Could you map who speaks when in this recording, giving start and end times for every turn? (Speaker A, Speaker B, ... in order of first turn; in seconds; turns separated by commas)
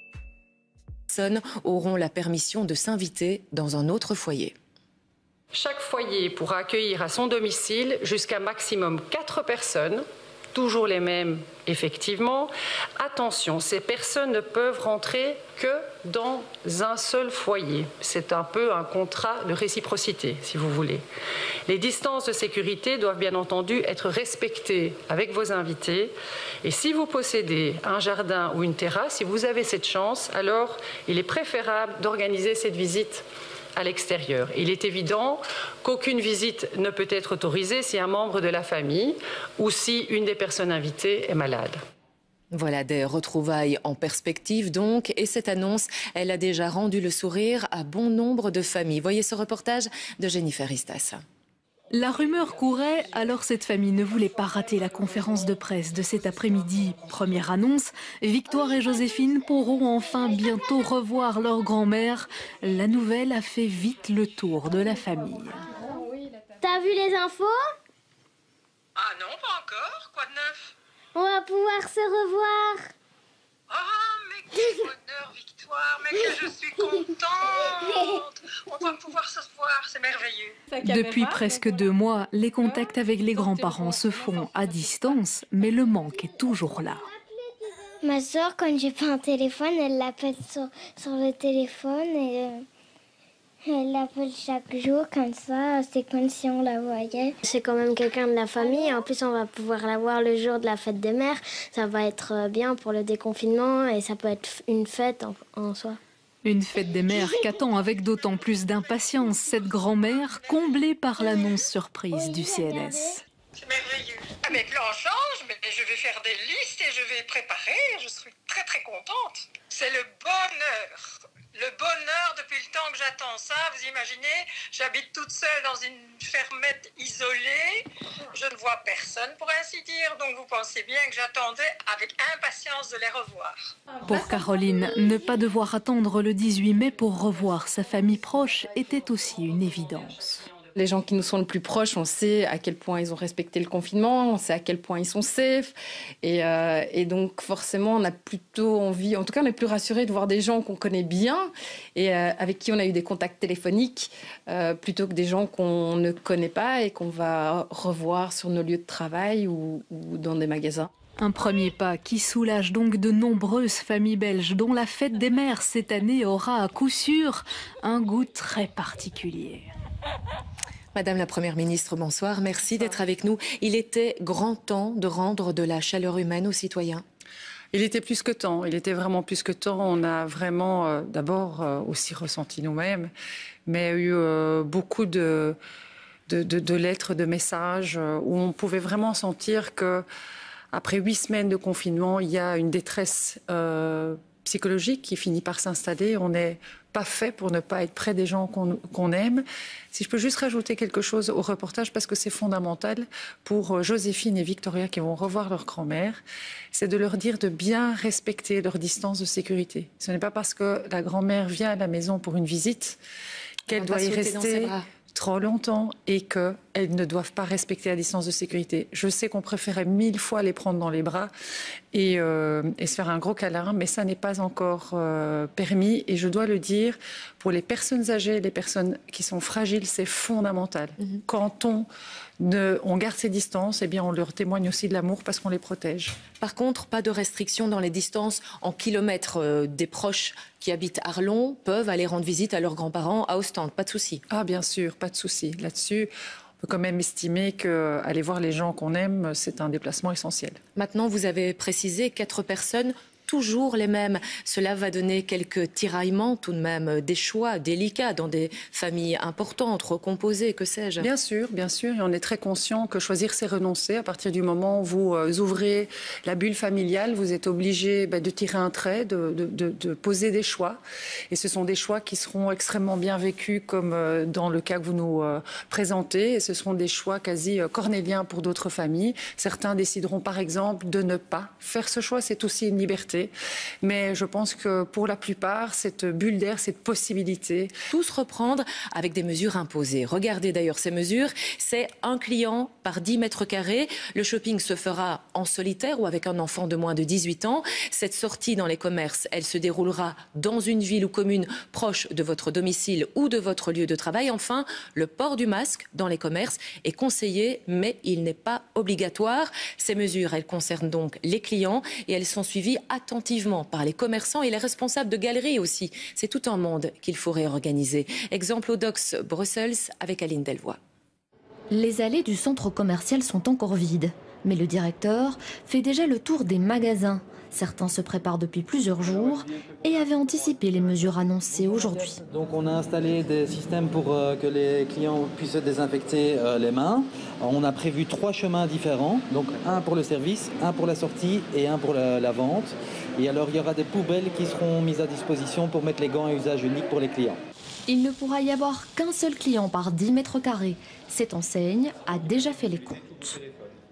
Speaker A: 1.1-4.5, Speaker B: 5.5-10.0, Speaker B: 10.6-21.1, Speaker B: 21.7-26.1, Speaker B: 26.6-33.2, Speaker B: 33.8-41.8, Speaker A: 42.5-51.2, Speaker C: 51.9-65.6, Speaker D: 66.8-67.5, Speaker E: 69.0-70.7, Speaker D: 71.2-72.8, Speaker E: 73.7-80.6, Speaker C: 80.8-87.1, Speaker D: 88.0-92.7, Speaker D: 93.7-106.0, Speaker C: 106.4-113.2, Speaker E: 107.9-110.8, Speaker D: 112.2-113.1, Speaker E: 113.6-121.0, Speaker E: 121.5-127.8, Speaker E: 128.3-133.6, Speaker C: 134.1-140.5, Speaker F: 140.8-160.9, Speaker C: 161.2-169.7, Speaker A: 170.9-177.0, Speaker B: 177.7-183.1, Speaker B: 183.7-185.6, Speaker B: 186.3-190.1, Speaker B: 190.7-206.2, Speaker B: 206.7-213.0, Speaker B: 213.7-221.3, Speaker A: 213.7-214.9, Speaker B: 221.9-231.9, Speaker B: 232.4-236.2, Speaker A: 236.4-244.2, Speaker B: 244.3-246.1, Speaker B: 246.6-250.6, Speaker A: 250.8-261.1, Speaker B: 261.0-270.8, Speaker B: 271.3-287.7, Speaker A: 287.9-320.8, Speaker G: 321.7-332.2, Speaker H: 332.3-347.4, Speaker G: 347.9-353.4